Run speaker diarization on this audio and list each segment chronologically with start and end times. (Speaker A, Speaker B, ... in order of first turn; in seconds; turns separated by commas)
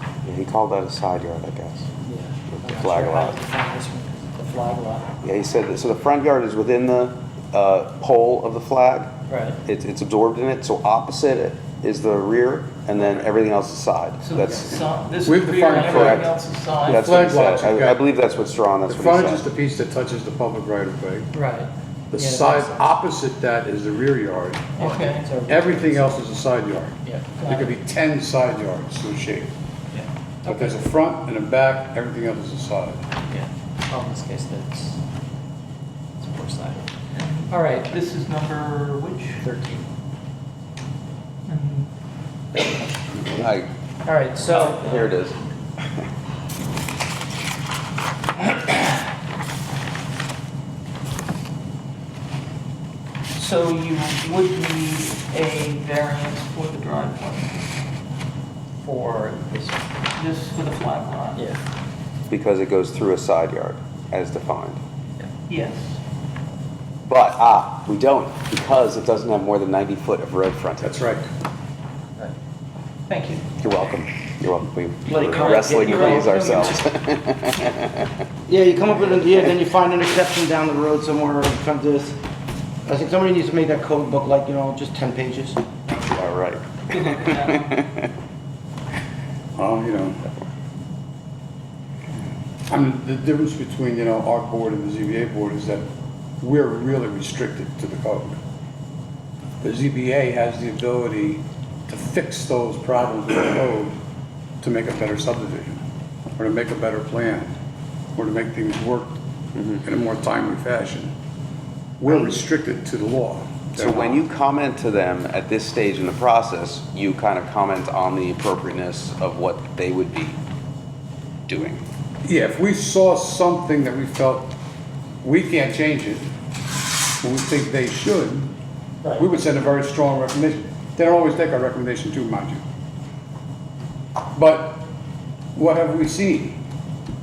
Speaker A: 0.2-1.9, Speaker B: 2.0-5.1, Speaker A: 2.5-3.4, Speaker A: 5.2-14.8, Speaker B: 9.3-9.6, Speaker C: 14.2-17.2, Speaker D: 14.5-16.3, Speaker A: 15.8-16.3, Speaker D: 16.9-18.0, Speaker A: 16.9-19.4, Speaker D: 18.9-21.3, Speaker B: 21.3-22.9, Speaker D: 22.1-24.7, Speaker C: 24.8-25.3, Speaker B: 24.8-26.2, Speaker D: 25.5-29.5, Speaker C: 27.4-27.8, Speaker B: 30.4-30.8, Speaker D: 30.5-33.0, Speaker B: 33.3-35.0, Speaker B: 36.2-36.9, Speaker C: 37.1-39.5, Speaker B: 37.5-38.0, Speaker B: 39.4-39.9, Speaker C: 41.5-41.9, Speaker A: 43.1-43.7, Speaker B: 44.0-45.1, Speaker A: 44.4-45.4, Speaker C: 53.4-57.7, Speaker B: 58.8-60.0, Speaker C: 60.1-61.5, Speaker A: 62.3-64.8, Speaker C: 65.5-66.0, Speaker A: 67.0-71.0, Speaker D: 70.8-71.3, Speaker C: 73.1-73.5, Speaker A: 73.6-78.1, Speaker E: 75.1-76.8, Speaker C: 75.3-76.8, Speaker E: 78.5-82.2, Speaker E: 82.8-85.6, Speaker A: 86.1-88.1, Speaker C: 86.9-87.8, Speaker D: 89.6-90.3, Speaker D: 92.7-95.9, Speaker D: 96.4-98.4, Speaker D: 99.6-104.0, Speaker D: 104.6-105.8, Speaker D: 106.4-107.5, Speaker D: 108.2-109.2, Speaker D: 109.8-111.1, Speaker D: 112.0-114.2, Speaker A: 113.8-120.4, Speaker A: 121.5-121.8, Speaker D: 122.2-124.5, Speaker D: 125.2-126.3, Speaker D: 127.2-128.5, Speaker D: 129.2-132.6, Speaker D: 134.3-134.8, Speaker D: 135.6-136.6